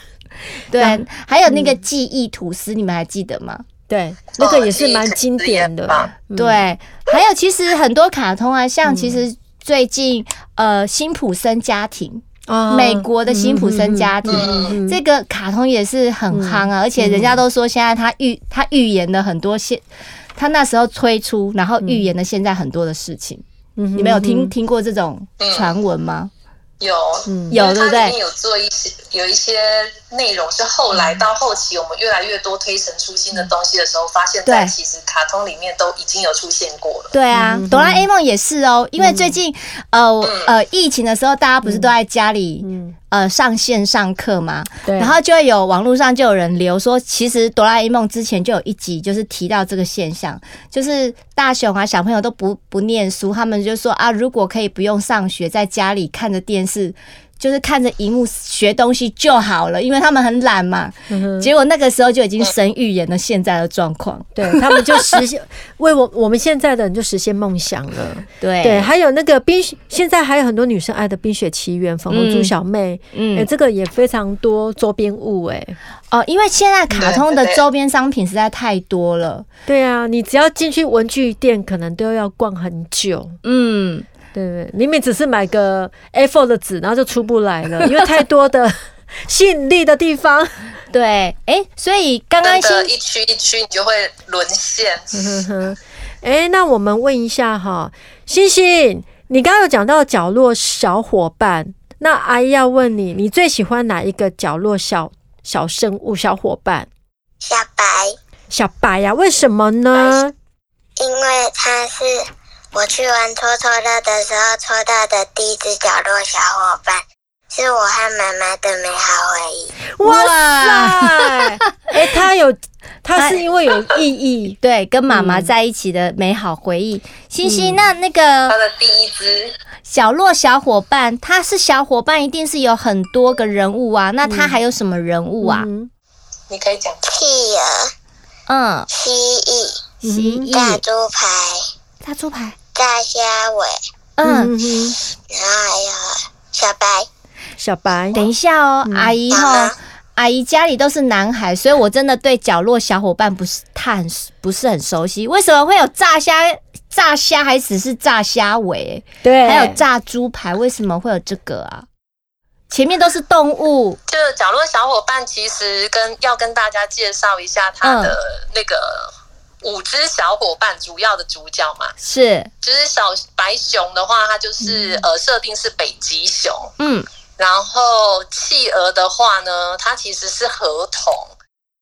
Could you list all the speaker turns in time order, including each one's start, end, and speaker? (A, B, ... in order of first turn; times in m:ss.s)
0:00.7-0:03.6 A
0:00.8-0:01.8 B
0:03.9-0:06.6 B
0:04.4-0:06.1 C
0:06.3-0:19.8 A
0:08.8-0:09.2 B
0:12.5-0:15.0 B
0:14.3-0:14.8 C
0:16.3-0:17.4 B
0:20.4-0:23.4 A
0:21.8-0:22.1 B
0:23.8-0:24.5 B
0:23.9-0:26.3 A
0:25.4-0:25.7 C
0:26.8-0:37.1 C
0:27.3-0:27.6 B
0:27.5-0:28.2 A
0:34.4-0:34.7 A
0:37.1-1:04.3 A
0:37.3-0:38.1 B
0:39.0-0:39.4 B
0:40.2-0:40.5 C
0:41.6-0:41.9 B
0:42.6-0:42.9 B
0:44.8-0:45.2 B
1:01.1-1:01.5 B
1:04.3-1:15.8 B
1:08.4-1:08.9 A
1:12.1-1:12.5 A
1:13.1-1:13.5 A
1:16.1-1:19.4 A
1:16.9-1:17.6 C
1:19.7-1:23.4 B
1:23.4-1:24.0 A
1:24.3-1:30.7 B
1:30.9-1:32.9 A
1:32.4-1:35.3 C
1:35.1-1:46.9 B
1:47.4-1:48.2 D
1:48.5-1:50.3 B
1:51.0-1:59.7 D
2:00.0-2:04.6 B
2:00.0-2:01.5 A
2:03.1-2:03.4 A
2:04.6-2:08.6 A
2:05.1-2:05.5 B
2:07.4-2:07.8 B
2:08.5-2:09.5 C
2:09.8-2:15.7 A
2:14.2-2:14.6 B
2:15.4-2:15.9 B
2:16.5-2:17.1 C
2:17.0-2:17.9 D
2:18.5-2:18.9 A
2:18.9-2:19.9 D
2:20.0-2:20.5 B
2:20.0-2:20.8 A
2:20.5-2:21.6 D
2:22.0-2:22.6 A
2:22.7-2:23.8 D
2:24.2-2:24.5 A
2:24.2-2:25.0 B
2:25.3-2:27.1 D
2:27.6-2:28.2 B
2:28.1-2:41.8 A
2:28.8-2:29.2 B
2:29.3-2:29.7 D
2:39.2-2:39.8 B
2:42.7-2:44.0 A
2:44.1-2:51.9 C
2:47.8-2:48.2 A
2:52.0-2:52.5 A
2:52.6-2:56.7 C
2:54.7-2:55.0 A
2:56.8-2:57.1 A
2:57.4-3:01.3 C